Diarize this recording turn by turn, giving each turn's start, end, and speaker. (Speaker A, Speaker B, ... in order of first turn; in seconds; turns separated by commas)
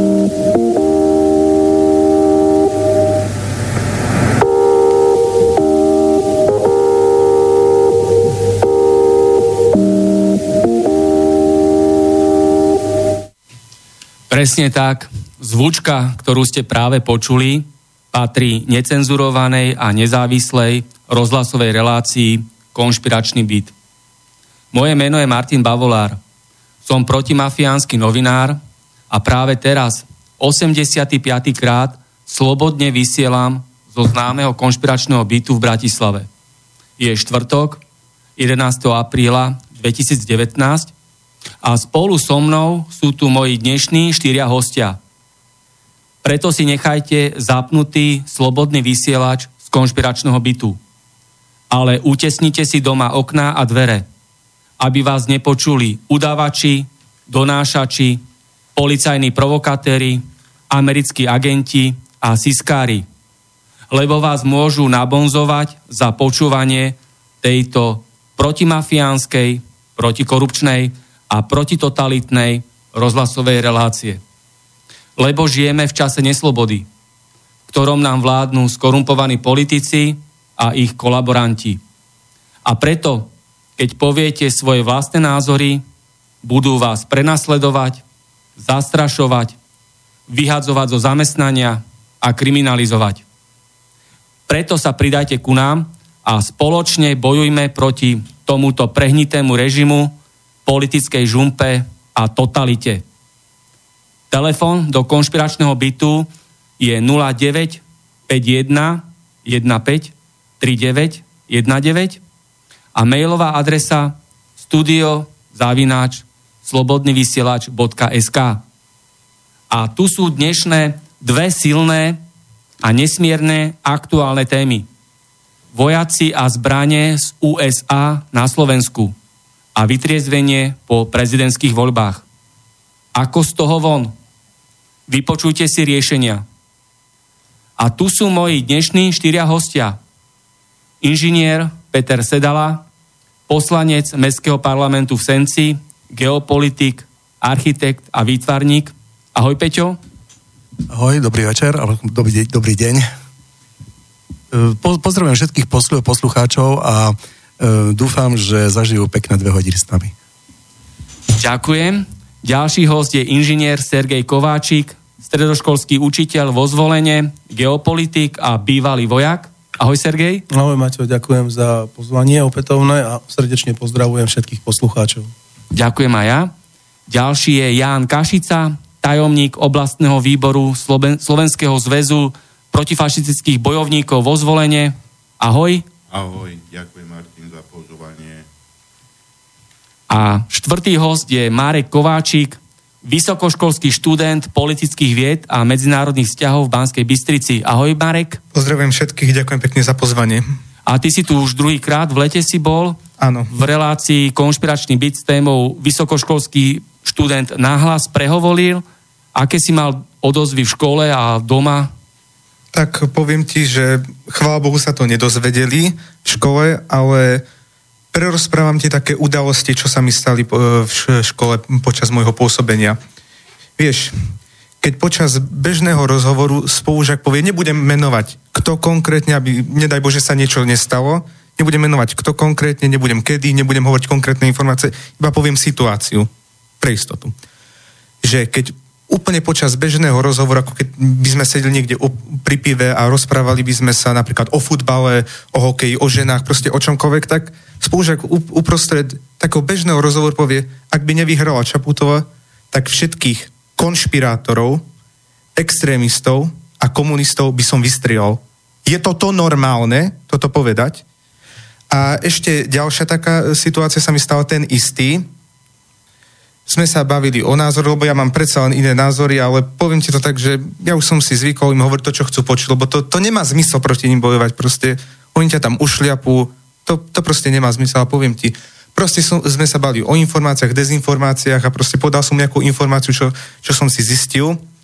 Speaker A: 14.3-23.7, Speaker A: 24.7-26.2, Speaker A: 26.9-36.3, Speaker A: 37.0-37.8, Speaker A: 38.4-40.9, Speaker A: 41.6-45.0, Speaker A: 46.2-50.8, Speaker A: 51.7-54.1, Speaker A: 54.8-58.2, Speaker A: 58.8-63.1, Speaker A: 63.9-74.2, Speaker A: 75.2-76.9, Speaker A: 77.7-81.8, Speaker A: 82.7-85.8, Speaker A: 86.4-88.0, Speaker A: 88.6-89.6, Speaker A: 90.3-93.2, Speaker A: 94.5-103.0, Speaker A: 104.3-112.2, Speaker A: 113.0-118.6, Speaker A: 119.7-122.2, Speaker A: 122.8-124.9, Speaker A: 125.7-129.2, Speaker A: 129.8-132.2, Speaker A: 133.2-134.1, Speaker A: 135.1-136.4, Speaker A: 137.8-140.0, Speaker A: 141.0-142.8, Speaker A: 143.5-150.0, Speaker B: 150.9-153.1, Speaker B: 154.5-160.1, Speaker A: 161.3-170.4, Speaker C: 170.5-175.3, Speaker A: 175.7-176.5, Speaker A: 177.1-185.8, Speaker D: 186.1-188.5, Speaker A: 190.1-198.4, Speaker E: 198.5-200.5, Speaker A: 200.9-203.0, Speaker E: 203.2-203.5, Speaker A: 203.5-208.8, Speaker A: 209.3-211.9, Speaker E: 212.7-217.4, Speaker E: 218.1-223.0, Speaker E: 223.8-224.2, Speaker E: 224.8-236.3, Speaker E: 236.8-237.3, Speaker E: 238.2-254.8, Speaker E: 255.6-261.0, Speaker E: 261.9-265.3, Speaker E: 266.7-284.6